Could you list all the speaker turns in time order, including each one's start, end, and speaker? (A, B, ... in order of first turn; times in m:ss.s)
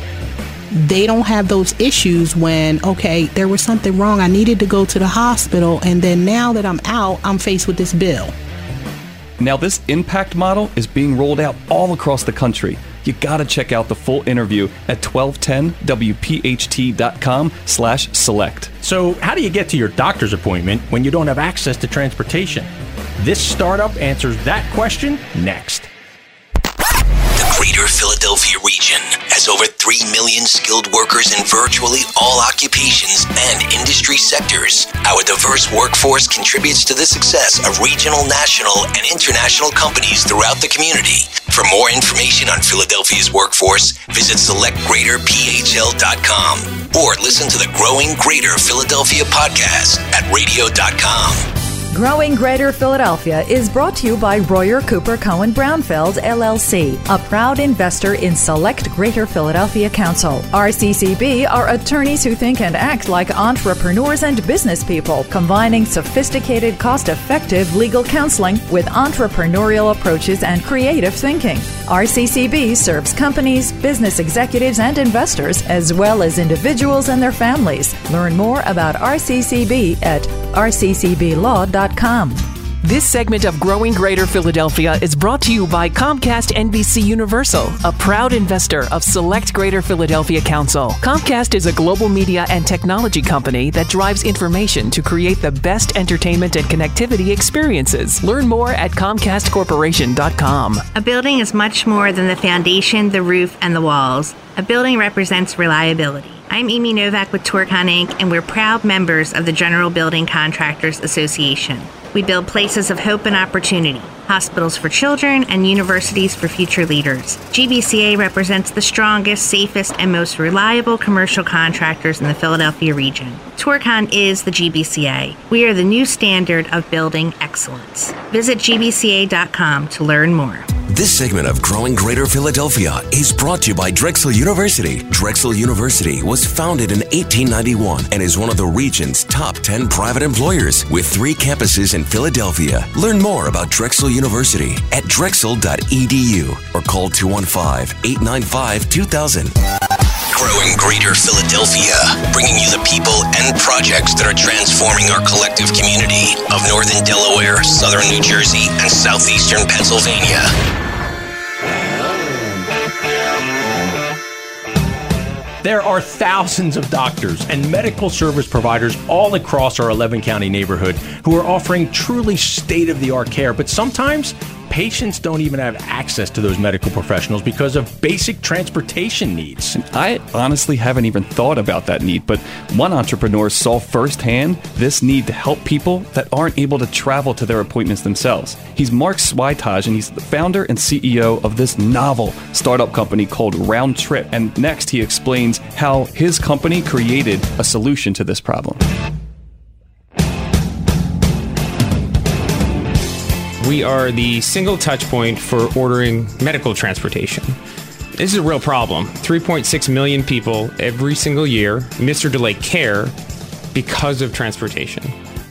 0:00.7-0:08.3 A
0:09.4-0:18.7 B
0:18.8-0:25.9 C
0:27.4-0:51.5 D
0:51.9-1:22.4 E
1:22.8-1:40.9 F
1:40.9-2:10.7 G
2:10.9-2:29.6 D
2:30.3-2:40.5 D
2:45.6-2:59.8 C
2:59.8-3:18.8 B
3:23.6-3:27.6 H
3:28.2-3:33.1 H
3:33.7-3:35.1 H